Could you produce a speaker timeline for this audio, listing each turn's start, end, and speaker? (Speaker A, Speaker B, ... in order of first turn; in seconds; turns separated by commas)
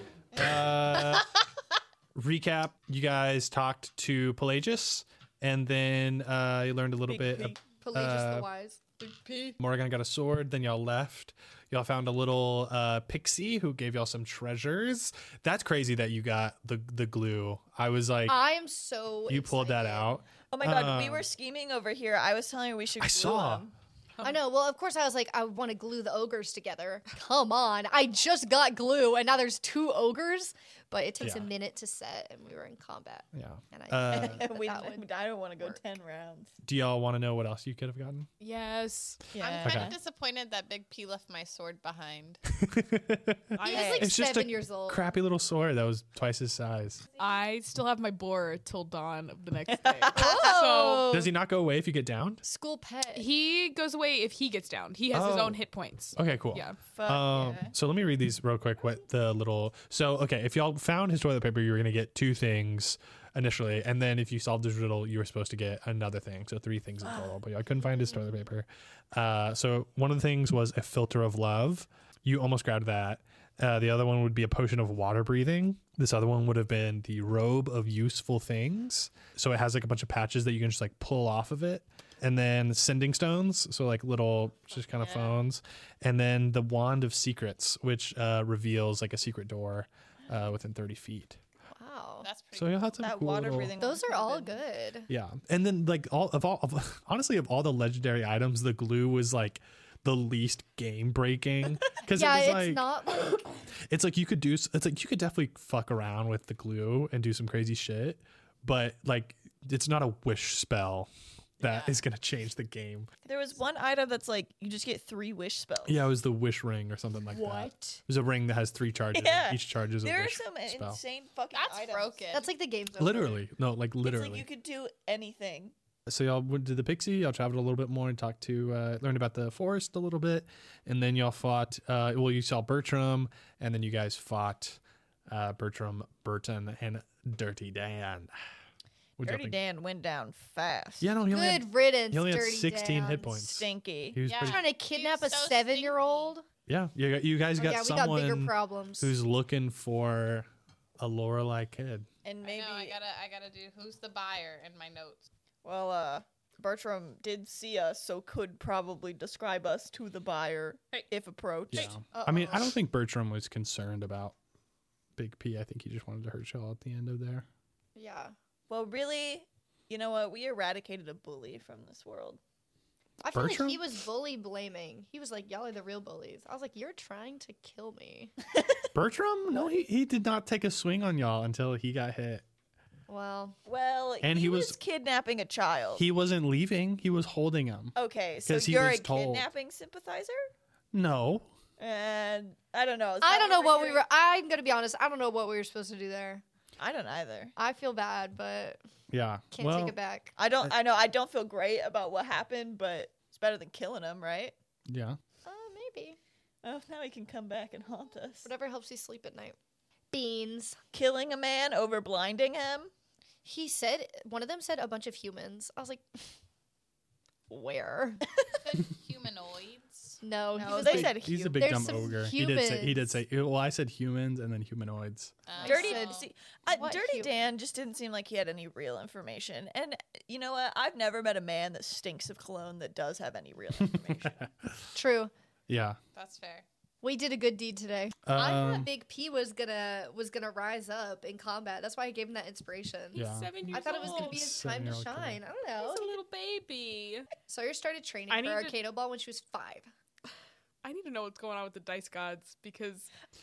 Speaker A: 0.3-1.3, Speaker A: 2.1-8.5, Speaker B: 7.1-7.6, Speaker C: 7.8-8.9, Speaker A: 9.6-18.4, Speaker C: 18.2-20.2, Speaker A: 19.3-21.2, Speaker B: 20.5-23.7, Speaker A: 23.0-23.6, Speaker C: 24.2-35.9, Speaker A: 31.2-31.5, Speaker A: 33.3-34.4, Speaker B: 34.1-36.5, Speaker A: 36.6-38.3, Speaker D: 38.4-39.3, Speaker B: 39.3-40.0, Speaker E: 39.4-42.4, Speaker A: 39.6-40.0, Speaker A: 42.5-47.0, Speaker D: 43.5-43.9, Speaker C: 43.6-45.1, Speaker B: 43.7-44.1, Speaker D: 47.1-51.0, Speaker B: 49.8-51.0, Speaker C: 50.1-51.3, Speaker A: 51.1-52.4, Speaker C: 52.4-53.3, Speaker D: 53.1-56.8, Speaker A: 55.1-55.6, Speaker A: 56.1-91.4, Speaker B: 56.9-57.7, Speaker B: 67.0-67.4, Speaker E: 85.0-85.4, Speaker C: 91.7-92.3, Speaker E: 92.2-92.9, Speaker A: 92.5-93.7, Speaker B: 93.0-94.6, Speaker C: 93.8-95.1, Speaker A: 95.1-102.9, Speaker C: 102.1-103.6, Speaker A: 103.9-111.1, Speaker A: 111.6-113.1, Speaker E: 111.6-111.9, Speaker B: 113.2-116.1, Speaker A: 115.9-121.0, Speaker C: 117.3-118.0, Speaker B: 119.1-122.3, Speaker E: 121.5-122.5, Speaker C: 122.3-123.4, Speaker A: 123.0-124.5, Speaker B: 124.0-125.7, Speaker A: 126.1-138.3, Speaker A: 139.2-139.6, Speaker B: 139.2-141.1, Speaker A: 141.0-144.6, Speaker C: 141.3-143.5, Speaker B: 143.5-144.2, Speaker E: 144.2-146.3, Speaker C: 144.4-146.4, Speaker A: 146.7-152.1, Speaker C: 147.6-149.1, Speaker B: 152.2-153.0, Speaker E: 152.4-155.2, Speaker B: 155.6-162.8, Speaker A: 161.7-164.3, Speaker E: 161.7-162.0, Speaker A: 165.2-167.4, Speaker C: 167.9-168.3, Speaker B: 168.7-172.4, Speaker C: 173.2-178.3, Speaker A: 173.3-173.8, Speaker A: 178.9-182.4, Speaker C: 183.1-183.6, Speaker B: 183.7-186.1, Speaker A: 184.2-184.8, Speaker A: 185.9-189.5, Speaker B: 187.9-190.4, Speaker A: 190.9-191.5, Speaker B: 191.8-194.0, Speaker C: 193.2-196.4, Speaker B: 196.8-197.5, Speaker C: 197.6-198.8, Speaker A: 199.1-199.9, Speaker C: 199.5-200.3, Speaker B: 200.4-204.5, Speaker A: 204.9-205.2, Speaker C: 205.4-206.2, Speaker B: 206.6-208.5, Speaker C: 208.4-209.6, Speaker C: 210.1-210.8, Speaker B: 210.9-212.9, Speaker C: 213.4-216.2, Speaker C: 217.5-218.2, Speaker E: 218.7-220.2, Speaker C: 220.2-223.2, Speaker B: 220.6-221.7, Speaker A: 220.7-225.3, Speaker E: 225.5-226.3, Speaker C: 225.5-226.2, Speaker B: 225.6-234.5, Speaker C: 226.7-227.4, Speaker A: 233.8-234.7, Speaker C: 234.9-235.3, Speaker A: 235.7-236.0, Speaker E: 236.1-236.6, Speaker C: 237.0-246.2, Speaker A: 238.2-238.9, Speaker D: 243.1-244.5, Speaker A: 243.2-245.4, Speaker D: 245.8-247.3, Speaker C: 247.5-249.9, Speaker D: 248.3-248.8, Speaker D: 250.8-253.1